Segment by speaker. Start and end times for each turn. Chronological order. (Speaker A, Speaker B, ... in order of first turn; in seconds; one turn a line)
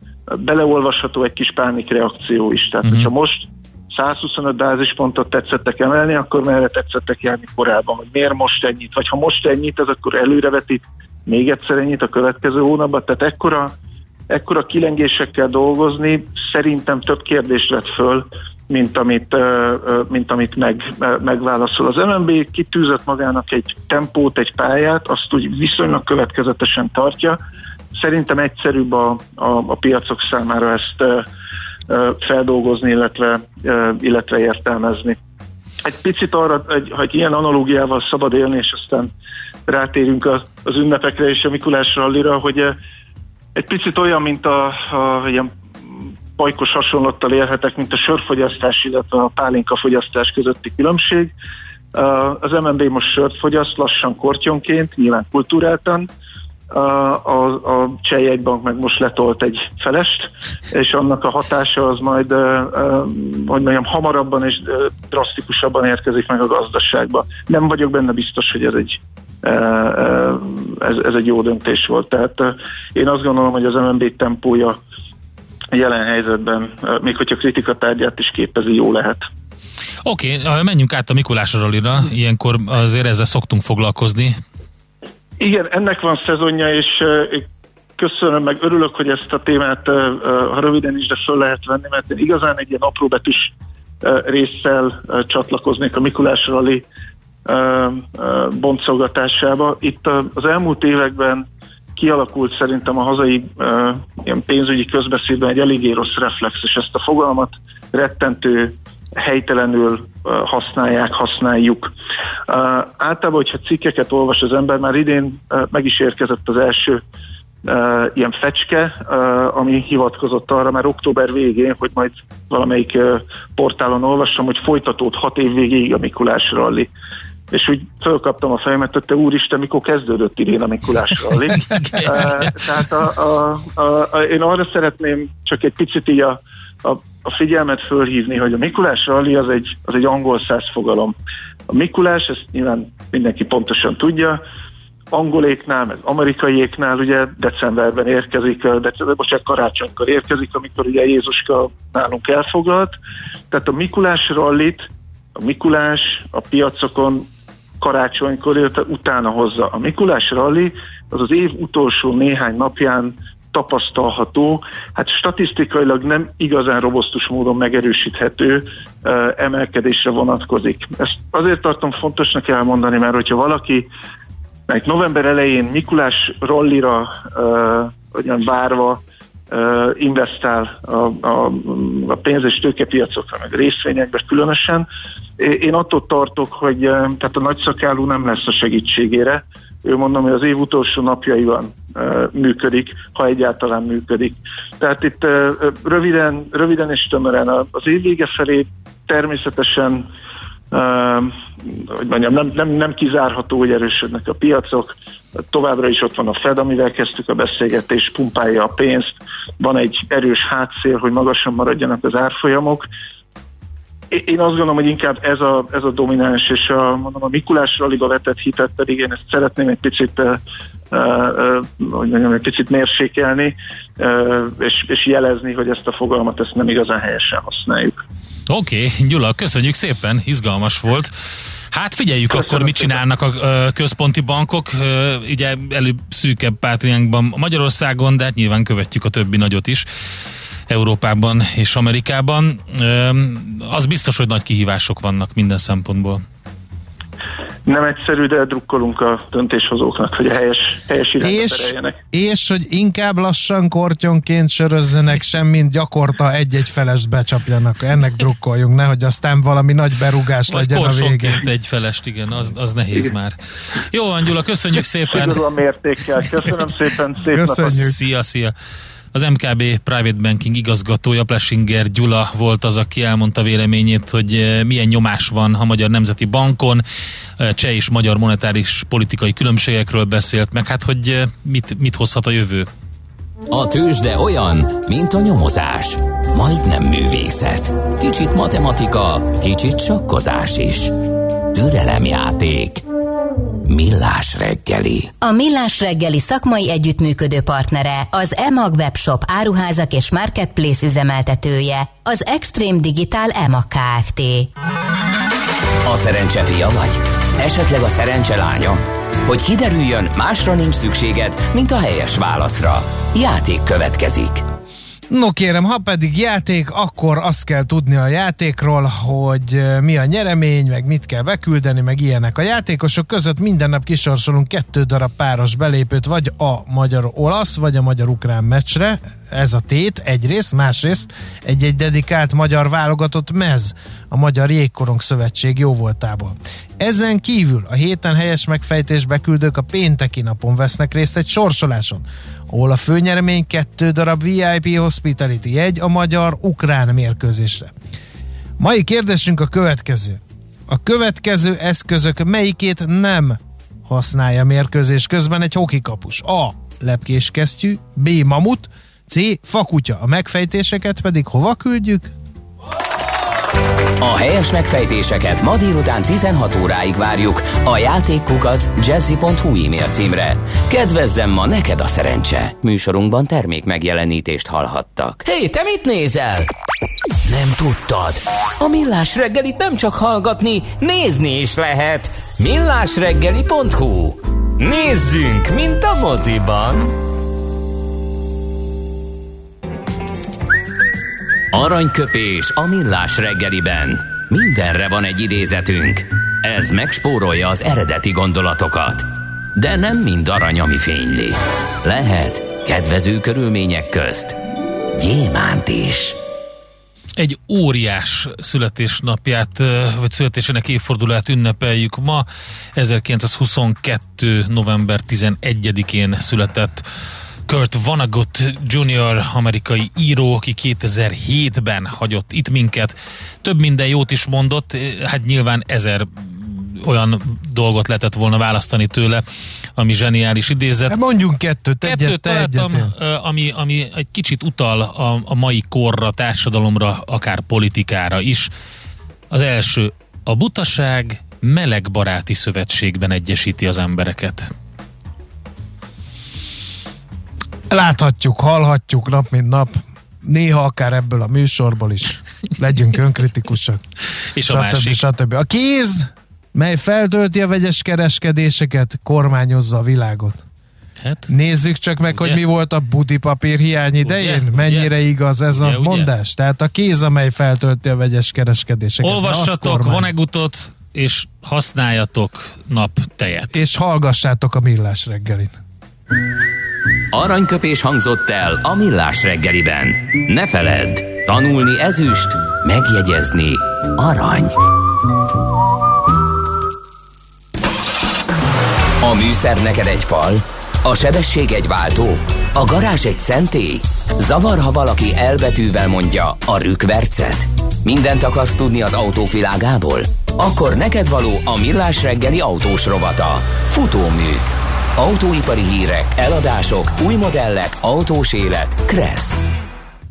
Speaker A: 0.3-13.7
Speaker B: 2.8-3.1
Speaker A: 14.3-27.4
Speaker A: 27.9-31.2
Speaker A: 31.9-35.2
Speaker A: 35.8-39.1
Speaker A: 39.7-42.8
Speaker A: 43.5-51.3
Speaker A: 51.9-56.1
Speaker A: 56.7-74.8
Speaker A: 75.7-79.3
Speaker B: 80.0-84.4
Speaker A: 85.4-87.5
Speaker A: 88.0-96.8
Speaker A: 97.5-111.9
Speaker A: 112.5-117.0
Speaker A: 117.6-126.9
Speaker A: 127.5-141.1
Speaker B: 132.0-132.5
Speaker A: 141.7-144.4
Speaker A: 145.1-152.9
Speaker A: 153.5-157.3
Speaker A: 157.8-173.9
Speaker A: 174.7-184.9
Speaker A: 185.4-200.1
Speaker A: 200.7-212.9
Speaker A: 214.1-220.4
Speaker A: 220.9-228.0
Speaker B: 228.5-231.1
Speaker B: 231.7-239.8
Speaker A: 232.3-232.9
Speaker B: 240.7-246.2
Speaker A: 247.7-252.0
Speaker C: 251.2-261.5
Speaker B: 260.5-265.4
Speaker A: 265.1-267.8
Speaker C: 267.3-267.9
Speaker B: 267.6-268.5
Speaker B: 269.1-276.8
Speaker B: 277.4-282.7
Speaker D: 283.5-291.0
Speaker D: 291.5-292.8
Speaker D: 293.7-295.1
Speaker E: 295.2-304.5
Speaker D: 305.8-314.4
Speaker C: 315.1-347.7
Speaker C: 348.6-362.1
Speaker D: 364.0-376.5
Speaker D: 377.2-386.9
Speaker D: 391.5-404.4
Speaker D: 404.9-406.2
Speaker B: 407.2-416.8
Speaker B: 417.5-429.2
Speaker B: 429.8-431.0
Speaker C: 430.9-432.9
Speaker B: 431.8-438.5
Speaker B: 439.3-444.5
Speaker C: 447.7-453.8
Speaker B: 454.3-455.0
Speaker C: 454.5-460.4
Speaker B: 461.0-461.3
Speaker C: 461.3-470.1
Speaker B: 464.0-464.9
Speaker B: 465.5-466.1
Speaker B: 469.0-473.5
Speaker C: 473.5-475.6
Speaker D: 477.1-484.6
Speaker D: 489.0-504.4
Speaker D: 505.0-509.5